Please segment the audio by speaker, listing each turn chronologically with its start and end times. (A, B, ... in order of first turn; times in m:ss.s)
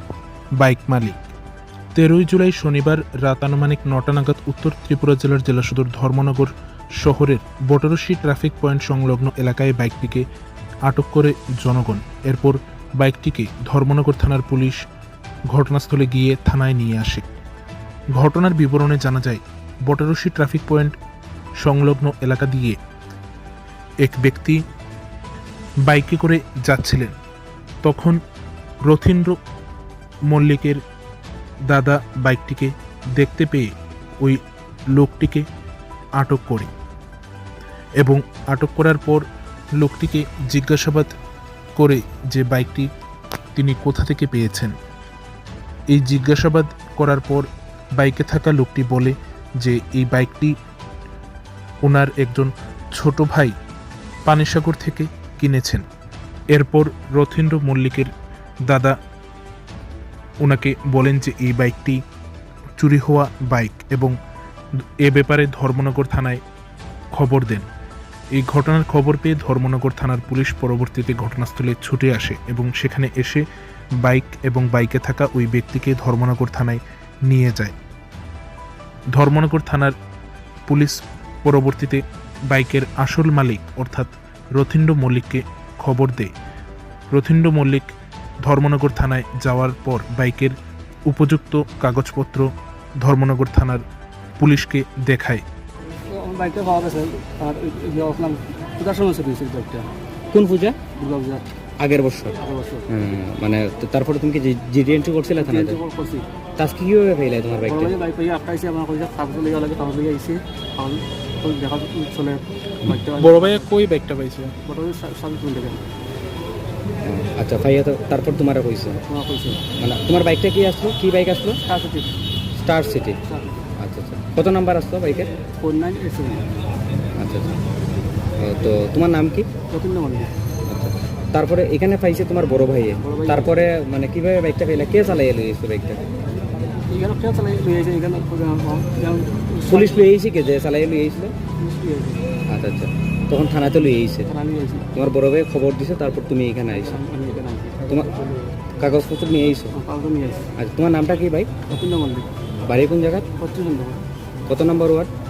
0:00.6-0:01.2 A
0:01.9-0:10.2 A
0:10.8-0:14.8 A
0:15.5-0:17.3 A
0:18.2-0:21.0 A
0:21.6-0:22.8 A
0:24.0-0:24.6 A
0:25.9-0:27.1 A
0:27.8-0:28.2 A
0:28.8-0:29.4 A
0:30.3-0:30.8 A
0:31.7-0:34.4 A
0:34.9-0:35.4 A
0:36.2-0:36.7 A
0:38.0-0:39.2 A
0:39.8-0:41.1 A
0:41.8-0:42.9 A
0:43.5-0:44.7 A
0:45.9-0:50.5 A
0:51.8-0:53.5 A
0:54.2-0:55.8 A
0:56.5-0:58.1 A
0:58.7-0:59.0 A
1:00.4-1:02.0 A
1:02.8-1:04.1 A
1:04.8-1:06.4 A
1:07.1-1:07.6 A
1:08.3-1:13.4 A
1:14.0-1:17.7 A
1:19.1-1:19.9 A
1:20.7-1:26.3 A
1:27.1-1:27.9 A
1:28.4-1:30.6 A
1:31.1-1:33.8 A
1:34.4-1:35.4 A
1:36.1-1:39.9 B
1:40.3-1:40.8 C
1:40.9-1:41.4 B
1:41.8-1:42.4 C
1:42.4-1:42.9 B
1:42.9-1:45.8 C
1:45.3-1:46.2 B
1:46.6-1:48.0 C
1:47.6-1:53.7 B
1:53.2-1:54.5 A
1:54.6-1:55.9 B
1:57.0-1:59.0 C
1:59.0-1:59.6 B
1:59.8-2:01.6 C
2:01.6-2:02.1 B
2:02.6-2:03.2 C
2:03.3-2:03.7 B
2:03.8-2:05.3 C
2:05.6-2:06.5 B
2:07.2-2:07.6 C
2:08.4-2:09.5 C
2:09.7-2:10.3 B
2:10.7-2:16.0 C
2:13.0-2:13.7 B
2:16.9-2:20.1 B
2:19.7-2:21.3 C
2:21.6-2:22.3 B
2:22.5-2:24.3 C
2:24.3-2:24.9 B
2:24.9-2:27.0 C
2:26.6-2:28.4 B
2:28.8-2:29.8 C
2:29.7-2:30.5 B
2:30.6-2:31.6 C
2:31.7-2:32.3 B
2:32.7-2:33.3 C
2:33.4-2:34.0 B
2:34.5-2:35.1 C